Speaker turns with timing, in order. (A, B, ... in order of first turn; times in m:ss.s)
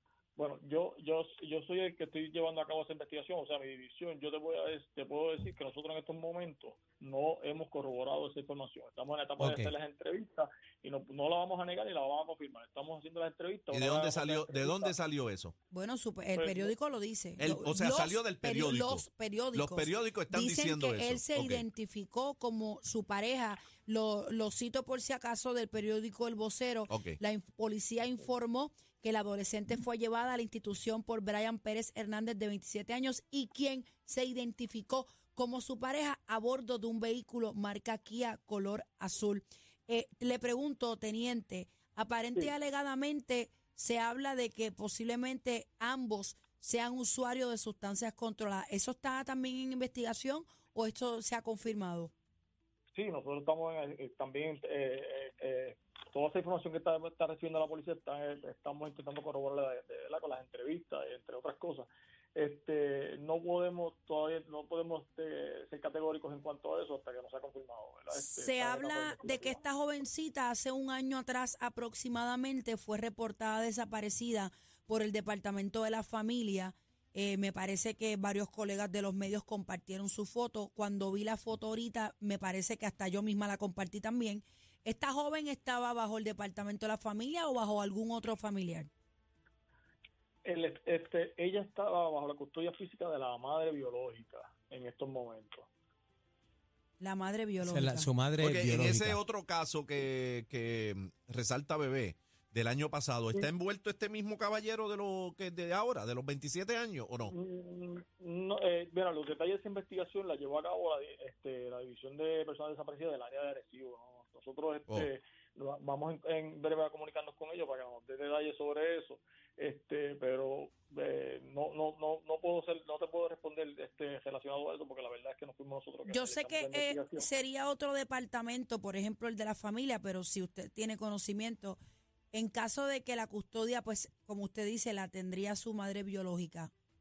0:00.4-0:14.9 A
0:09.4-0:09.7 B
0:13.7-0:15.5 C
0:15.7-0:52.1 D
0:16.3-0:16.7 A
0:17.4-0:21.6 C
0:26.9-0:27.2 C
0:52.9-1:09.6 A
1:08.1-1:28.9 D
1:30.4-1:35.7 A
1:37.0-1:38.1 D
1:37.6-1:39.2 B
1:38.4-1:47.3 C
1:47.3-2:07.3 A
2:06.1-2:11.8 D
2:12.3-2:16.7 D